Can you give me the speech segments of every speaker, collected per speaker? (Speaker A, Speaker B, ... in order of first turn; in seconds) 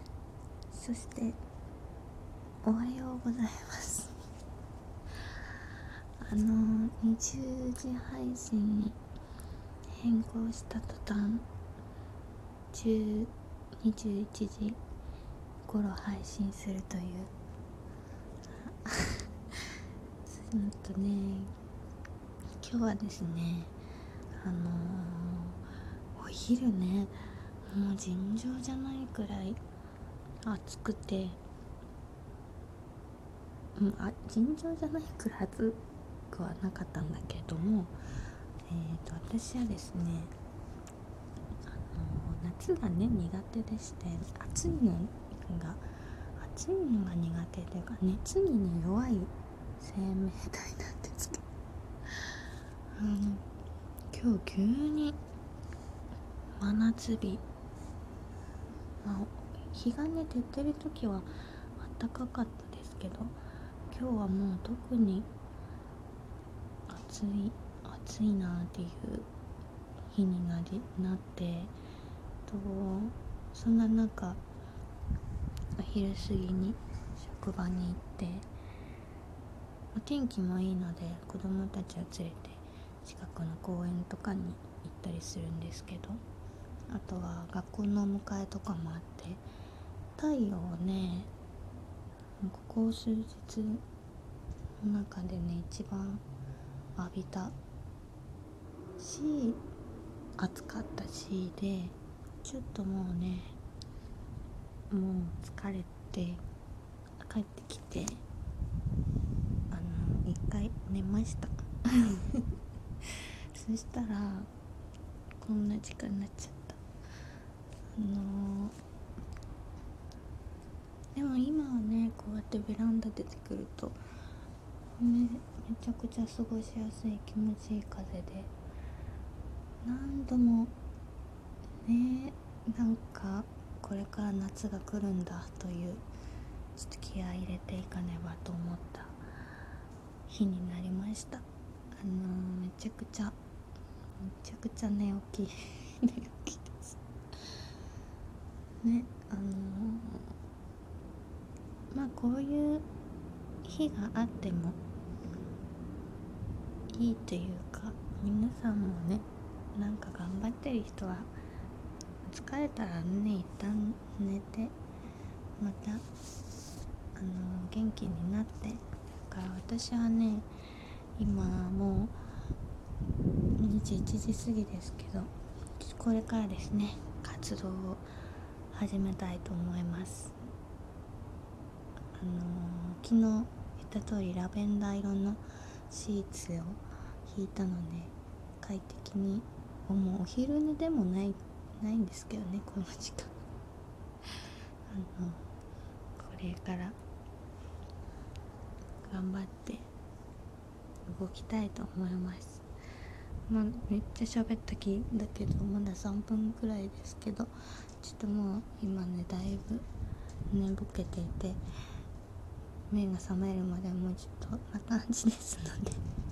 Speaker A: 0.7-1.4, 2.6-4.2, 6.2-9.0, 10.0-11.5, 12.7-14.8, 15.7-17.3, 18.6-21.5, 22.6-23.7, 24.4-25.6, 26.1-29.6, 30.4-31.4, 33.8-38.0, 38.7-40.3, 41.8-51.4, 53.0-53.5, 54.1-55.2, 56.6-57.4, 59.0-63.4, 63.9-65.3, 66.9-69.3, 70.1-71.7, 72.5-74.4, 75.8-78.5, 79.9-86.2, 86.9-89.4, 90.2-91.3, 92.4-93.8, 94.8-96.2, 97.0-97.5, 99.0-99.6, 100.4-103.6, 104.9-106.4, 107.2-108.2, 109.7-112.5, 113.0-114.5, 115.4-116.8, 118.0-118.8, 121.2-124.0, 125.0-128.5, 129.8-130.7, 131.8-136.0, 136.8-139.2, 140.3-143.4, 144.2-147.0, 148.8-150.3, 151.9-152.9, 153.6-154.8, 156.9-161.3, 162.2-164.7, 165.6-166.1, 167.2-170.5, 171.2-172.2, 173.6-178.1, 178.7-180.4, 182.2-193.4, 194.9-195.4, 196.2-197.0, 199.0-199.9, 201.1-202.7, 203.5-209.9, 210.5-211.6, 212.9-216.0